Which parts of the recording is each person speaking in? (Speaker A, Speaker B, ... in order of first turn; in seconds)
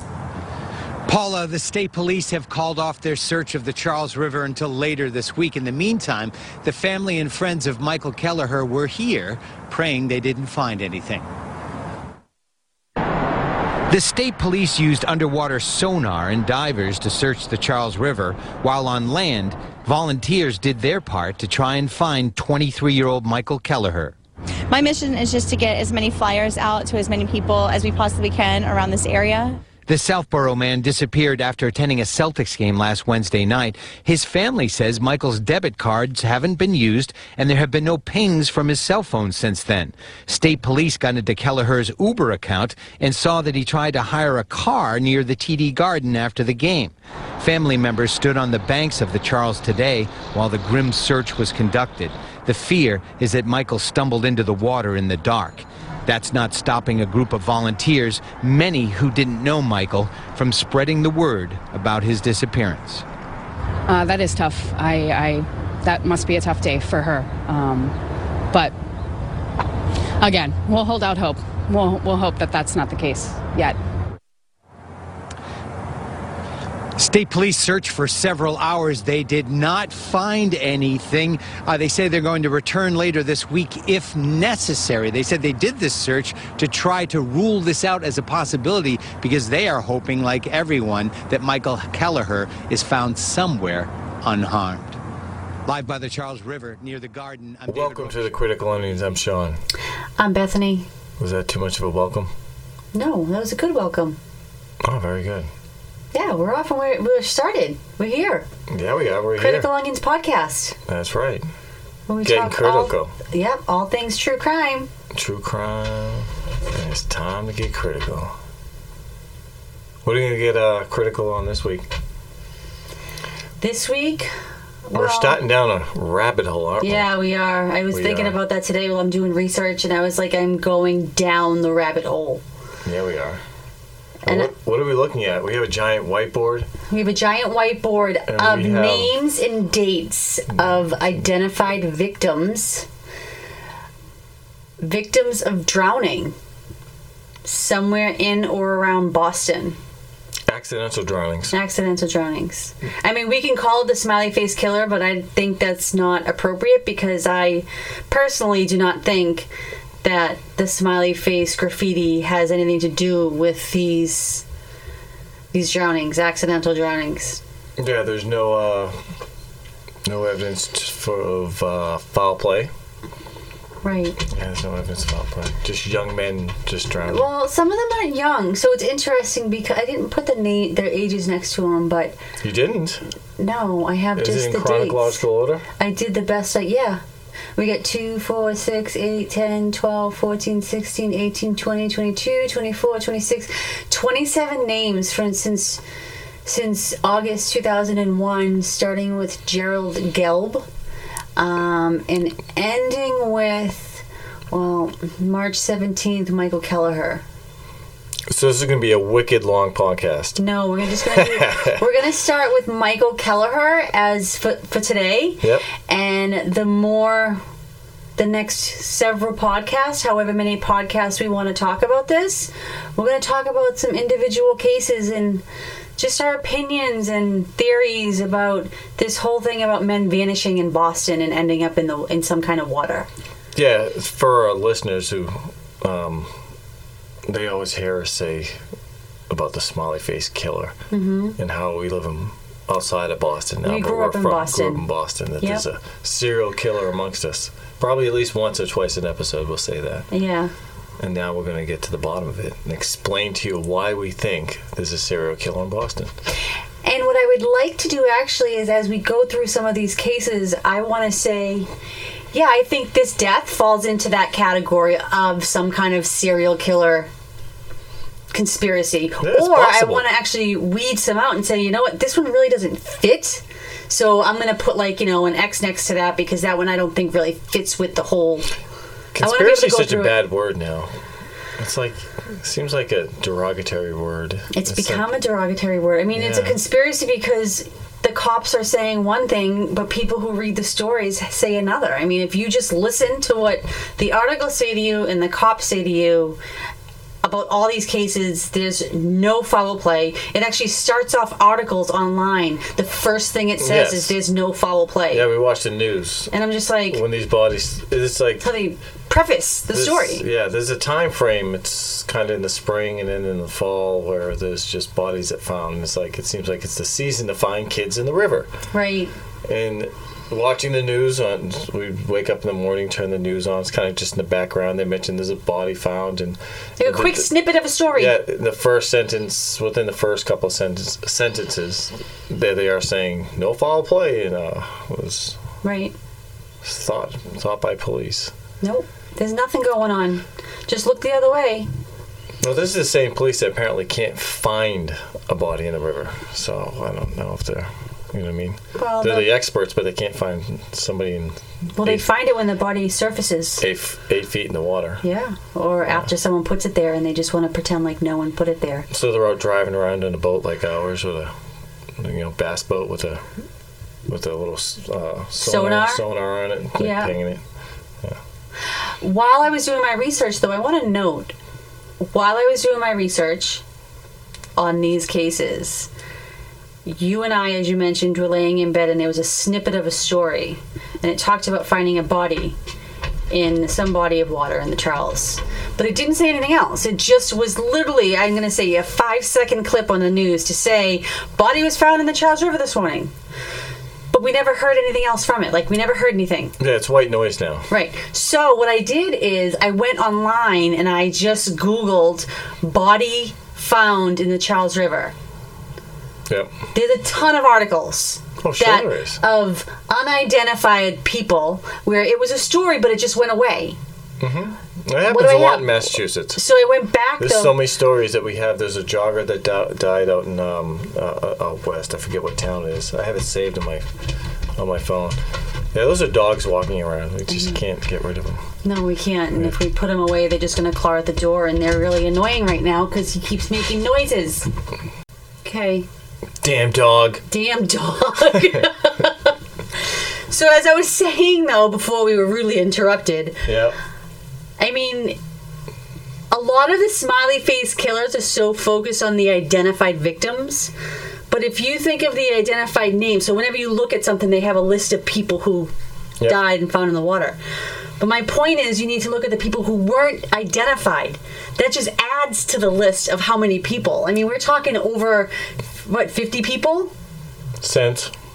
Speaker A: 1.1-11.3, 13.9-24.1, 29.9-63.0, 77.0-95.0, 95.7-98.7
Speaker B: 24.7-29.6
Speaker C: 63.9-68.0, 70.2-73.8
Speaker D: 97.7-99.6, 101.2-102.3, 104.8-105.5, 108.7-109.7, 110.9-111.5, 112.2-113.1, 115.1-118.3, 120.0-121.9, 124.9-127.1, 127.9-128.4, 132.8-133.4, 134.2-136.7, 138.3-139.2, 140.5-141.2, 150.5-151.5, 167.8-169.0, 170.0-172.7, 174.2-177.3, 182.4-183.1, 184.2-185.7, 208.3-210.4, 211.1-211.8, 233.6-236.3, 237.3-238.6, 239.3-240.8, 241.4-250.1, 251.0-256.1, 269.2-270.1, 279.1-280.9, 281.6-285.1, 286.1-286.6, 303.6-304.2, 305.1-306.3, 306.9-308.5, 309.7-318.5, 319.4-327.3, 327.9-335.4, 336.6-338.3, 342.4-352.1, 353.6-355.0, 358.9-361.3, 362.0-363.2, 364.1-367.4, 396.6-397.7, 408.4-409.2, 414.2-416.4, 417.2-423.9, 424.6-425.2, 425.7-428.4, 436.4-437.2, 438.3-438.6, 443.4-443.8, 467.6-468.1
Speaker E: 100.2-100.9, 102.9-104.2, 106.1-108.5, 109.4-110.8, 112.1-114.9, 123.6-124.3, 124.9-125.4, 126.8-132.4, 134.2-134.5, 136.9-142.9, 144.8-146.3, 147.4-149.8, 151.5-159.5, 160.0-164.4, 165.5-167.4, 173.8-174.2, 177.0-182.2, 183.4-185.2, 185.8-187.0, 187.6-195.8, 196.4-200.7, 201.4-207.2, 210.4-217.4, 218.2-225.4, 226.0-233.1, 240.9-241.4, 243.6-244.8, 250.1-250.5, 256.8-261.7, 262.3-267.1, 268.3-278.5, 279.2-280.2, 284.5-296.4, 297.2-305.3, 306.3-307.0, 308.4-310.2, 318.7-319.1, 326.8-328.2, 335.6-335.9, 338.6-341.7, 348.8-349.4, 351.8-353.6, 355.0-358.9, 365.4-366.1, 366.8-367.1, 369.0-371.3, 372.0-373.6, 374.6-375.9, 376.9-382.6, 383.3-393.1, 394.1-396.6, 397.7-405.1, 406.7-413.8, 415.1-417.6, 427.3-427.6, 428.6-434.5, 435.4-435.9, 437.3-439.4, 440.3-443.5, 444.6-445.2, 446.3-450.7, 451.3-455.7, 456.2-457.4, 458.0-465.3, 465.8-466.9